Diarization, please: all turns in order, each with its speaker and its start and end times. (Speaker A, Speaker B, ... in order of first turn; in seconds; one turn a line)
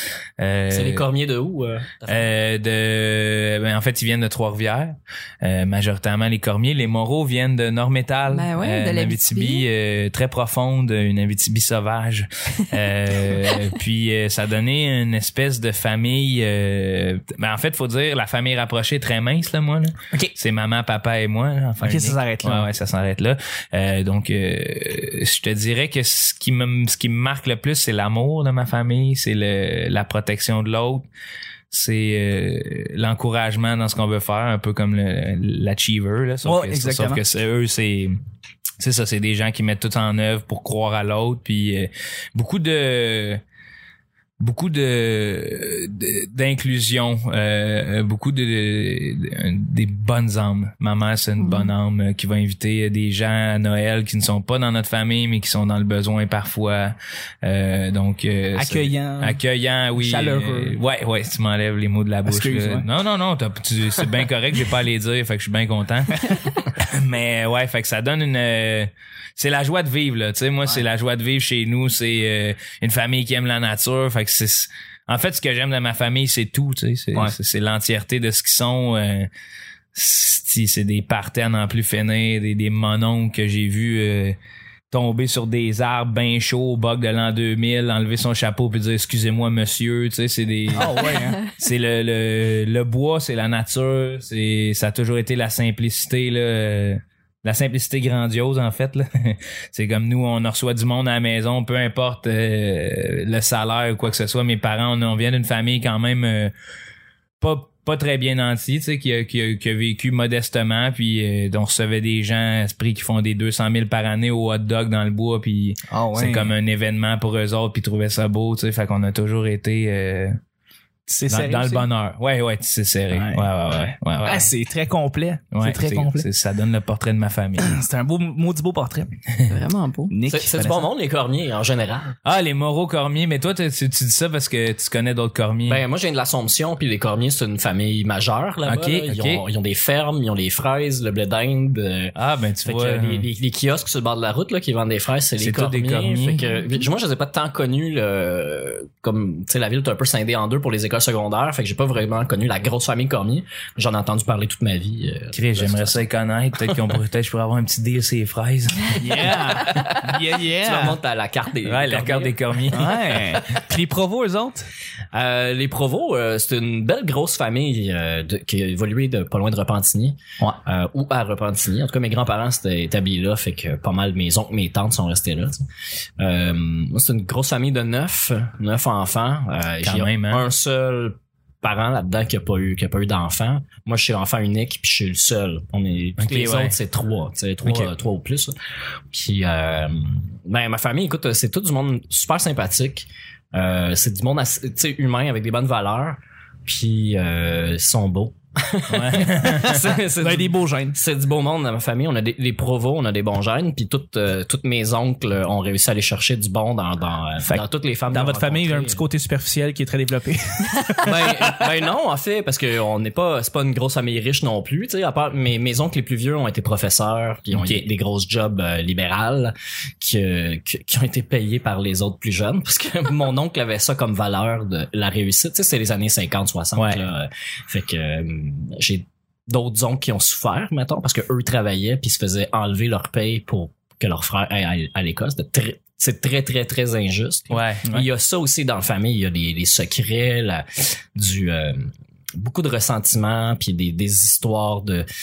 Speaker A: 0.4-1.0
Speaker B: 0.7-2.3
Speaker A: 2.1-31.1
Speaker C: 8.3-9.7
Speaker D: 21.8-22.7
Speaker A: 31.7-38.2
Speaker D: 36.4-37.2
Speaker A: 38.8-43.4
Speaker A: 44.4-79.3
Speaker C: 51.4-51.7
Speaker D: 58.5-59.4
Speaker D: 60.0-60.8
Speaker D: 62.3-62.9
Speaker A: 79.9-84.4
Speaker A: 84.9-106.5
Speaker D: 90.7-91.4
Speaker A: 107.4-120.4
Speaker D: 115.9-116.5
Speaker D: 121.1-121.9
Speaker A: 121.3-124.5
Speaker D: 123.1-123.5
Speaker D: 124.2-126.3
Speaker A: 125.5-127.7
Speaker D: 127.6-129.1
Speaker C: 129.5-130.1
Speaker D: 130.1-130.9
Speaker B: 130.3-132.2
Speaker A: 132.2-135.8
Speaker B: 135.7-156.0
Speaker A: 138.7-139.4
Speaker A: 142.2-143.3
Speaker A: 145.4-146.5
Speaker A: 155.3-159.8
Speaker D: 159.0-161.0
Speaker B: 160.6-162.6
Speaker A: 161.7-163.4
Speaker D: 162.7-164.7
Speaker B: 163.3-163.6
Speaker B: 165.1-175.6
Speaker B: 176.2-188.5
Speaker A: 179.8-180.5
Speaker A: 186.2-186.8
Speaker A: 187.6-187.9
Speaker B: 189.1-209.0
Speaker A: 198.9-199.9
Speaker D: 199.7-201.0
Speaker D: 207.4-211.6
Speaker B: 211.0-245.1
Speaker A: 217.5-217.8
Speaker A: 226.8-227.1
Speaker A: 237.5-237.9